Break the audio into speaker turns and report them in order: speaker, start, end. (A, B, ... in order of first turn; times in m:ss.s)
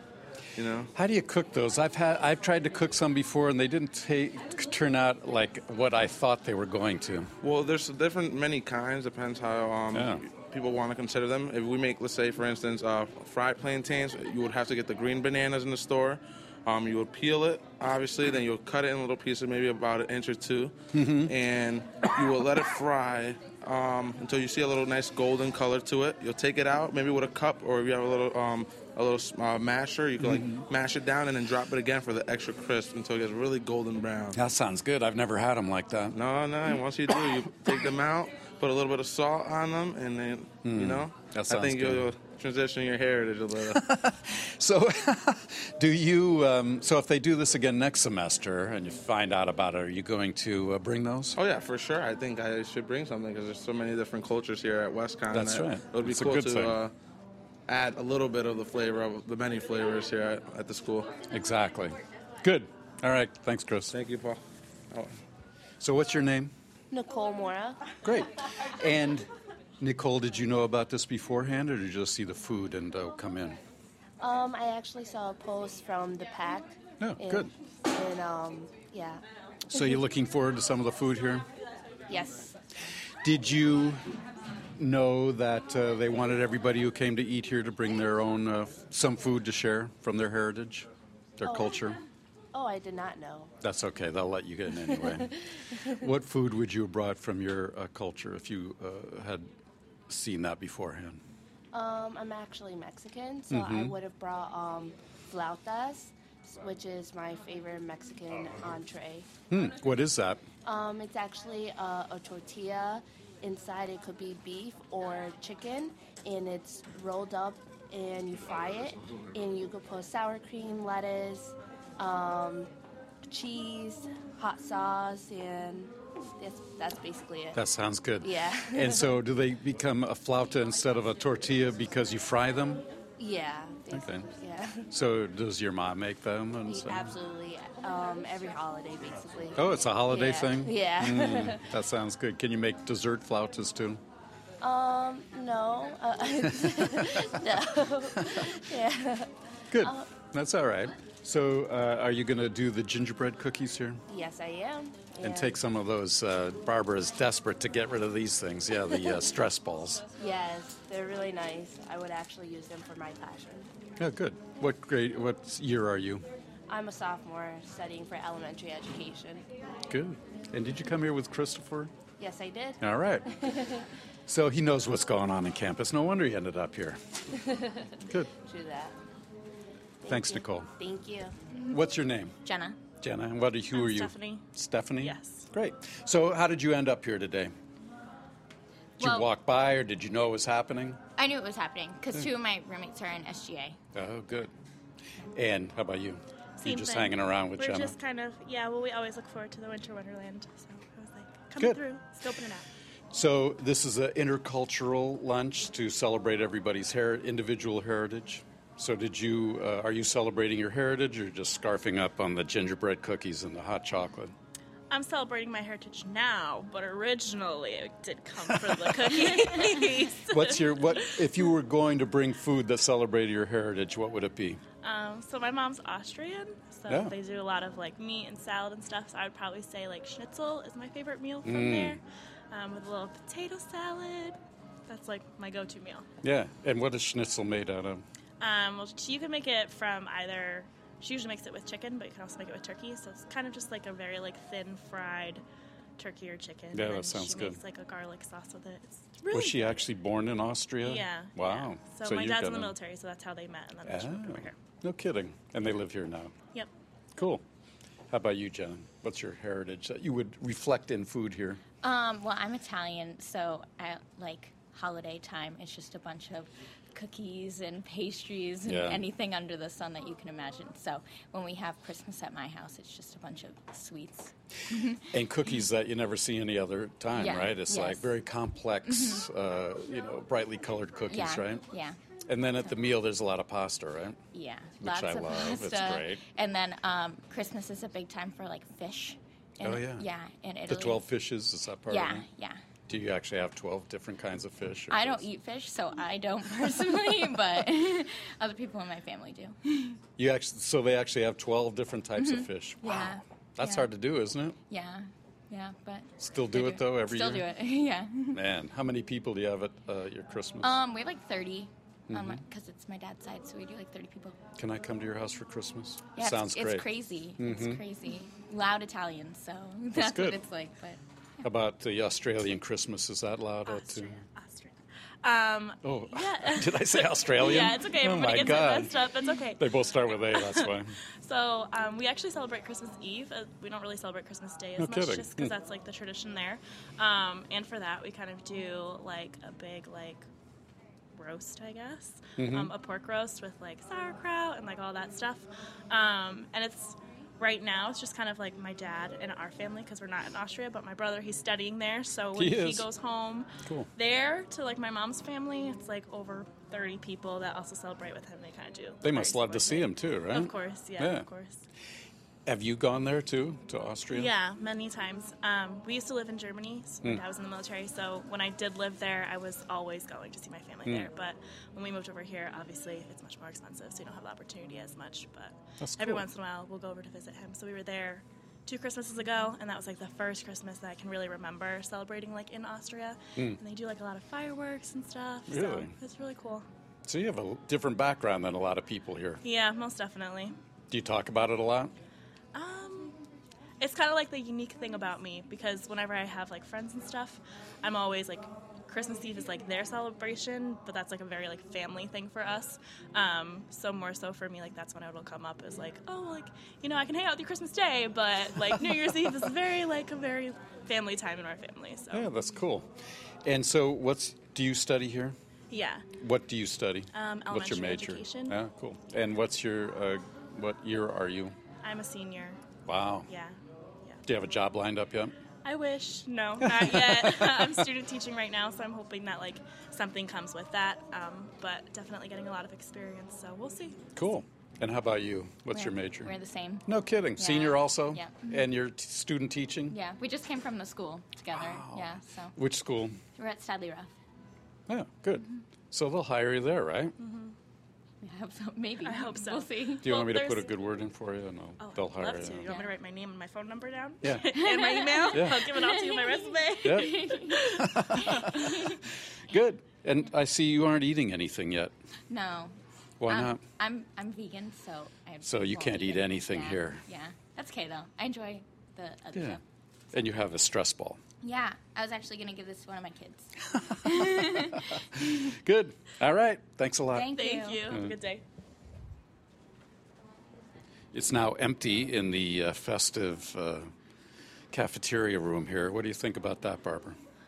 0:00.6-0:00.9 A
0:00.9-0:07.3 B
0:07.4-0:34.4 A
0:09.9-0:10.2 B
0:20.9-0:21.3 B
0:30.2-0:30.6 B
0:34.3-0:36.2 B
0:36.1-0:43.8 A
0:40.6-0:42.1 B
0:43.7-0:51.4 B
0:51.3-0:56.9 A
0:55.3-0:56.8 B
0:57.7-1:01.1 A
1:01.3-1:03.9 B
1:03.9-1:04.4 A
1:05.8-1:06.5 B
1:06.9-1:07.8 C
1:08.0-1:13.6 B
1:14.2-1:19.2 C
1:17.0-1:17.5 B
1:19.7-1:21.5 B
1:22.1-1:22.6 C
1:23.2-1:24.1 B
1:24.8-1:32.0 B
1:31.4-1:31.8 C
1:32.5-1:33.5 C
1:33.6-1:39.5 B
1:40.1-1:41.2 B
1:41.7-1:49.3 C
1:43.5-1:43.9 B
1:49.5-1:50.4 B
1:50.6-2:02.7 C
2:03.2-2:07.6 C
2:07.5-2:12.8 B
2:08.2-2:09.1 C
2:13.2-2:14.9 C
2:13.9-2:14.3 B
2:14.9-2:17.1 B
2:16.7-2:21.6 C
2:19.6-2:24.0 B
2:24.6-2:30.1 C
2:26.5-2:27.4 B
2:28.2-2:28.5 B
2:29.7-2:34.0 B
2:34.1-2:35.6 C
2:35.2-2:40.0 B
2:40.2-2:43.7 C
2:44.0-2:46.2 B
2:46.7-2:49.4 C
2:49.9-2:51.9 B
2:52.2-2:53.8 C
2:52.8-2:53.3 B
2:54.3-2:57.0 B
2:57.4-2:59.0 C
3:00.0-3:01.4 C
3:00.1-3:00.7 B
3:01.7-3:02.3 B
3:02.4-3:02.8 D
3:03.0-3:07.5 B
3:03.7-3:04.4 E
3:05.0-3:05.5 E
3:09.0-3:11.0 B
3:09.0-3:09.3 D
3:11.2-3:13.8 D
3:13.9-3:14.5 B
3:15.3-3:17.9 B
3:16.6-3:22.7 E
3:23.1-3:34.3 B
3:34.9-3:41.4 E
3:38.6-3:39.3 B
3:39.3-3:39.9 D
3:40.2-3:44.6 B
3:44.8-3:56.1 E
3:46.9-3:47.1 B
3:51.4-3:52.0 B
3:56.2-3:58.0 B
3:58.4-4:05.4 E
4:06.0-4:09.7 E
4:06.7-4:07.6 B
4:09.3-4:12.7 B
4:10.8-4:14.6 E
4:13.8-4:16.3 B
4:17.1-4:17.4 B
4:18.1-4:21.6 B
4:21.8-4:35.2 D
4:28.6-4:29.0 B
4:35.1-4:41.6 B
4:37.1-4:38.2 D
4:38.8-4:39.2 D
4:41.1-4:42.0 D
4:42.2-4:44.2 B
4:44.3-4:51.0 D
4:44.8-4:46.2 B
4:49.6-4:50.0 B
4:50.7-4:52.3 B
4:51.8-4:52.6 D
4:52.9-4:55.2 B
4:54.9-5:00.0 D
5:00.2-5:04.6 B
5:02.2-5:03.9 D
5:04.7-5:08.4 D
5:06.2-5:07.5 B
5:08.3-5:10.8 B
5:10.6-5:14.4 D
5:12.1-5:12.4 B
5:14.6-5:16.8 B
5:16.1-5:21.4 D
5:17.4-5:17.8 B
5:19.9-5:20.4 B
5:21.4-5:24.2 B
5:23.6-5:40.2 E
5:25.8-5:30.9 B
5:34.8-5:35.5 B
5:41.1-6:01.6 E
5:42.4-5:42.7 B
5:52.3-5:52.9 B
5:53.6-5:53.9 B
5:59.0-6:01.3 B
6:02.4-6:04.3 B
6:04.1-6:26.6 E
6:15.8-6:16.3 B
6:25.5-6:25.9 B
6:27.0-6:29.4 B
6:29.4-6:30.5 E
6:30.9-6:31.9 B
6:32.5-6:33.2 E
6:33.8-6:52.3 E
6:52.1-6:52.9 B
6:53.4-6:55.4 B
6:55.7-6:56.0 E
6:56.2-7:01.6 B
6:57.1-6:58.6 E
7:01.8-7:02.6 E
7:02.8-7:03.3 B
7:03.3-7:04.2 E
7:04.2-7:05.3 B
7:05.6-7:14.0 E
7:06.6-7:07.9 B
7:14.1-7:16.3 B
7:15.7-7:18.7 D
7:16.8-7:20.0 B
7:19.9-7:22.6 D
7:21.5-7:23.2 B
7:23.4-7:24.1 D
7:24.9-7:27.1 B
7:27.2-7:27.5 E
7:28.2-7:30.2 D
7:29.0-7:30.7 E
7:30.0-7:32.7 B
7:31.8-7:37.8 E
7:32.6-7:32.9 D
7:34.2-7:34.5 B
7:34.5-7:39.0 D
7:35.3-7:35.6 B
7:36.8-7:38.9 B
7:39.5-7:41.9 B
7:42.3-7:49.6 D
7:43.2-7:43.6 B
7:45.4-7:47.0 B
7:49.3-7:49.6 B
7:50.1-7:51.2 B
7:51.4-7:53.5 D
7:53.7-7:57.3 B
7:54.1-7:54.9 D
7:57.1-7:58.0 D
7:57.3-7:58.4 E
7:57.9-7:58.1 B
8:01.1-8:03.9 B
8:04.7-8:07.2 B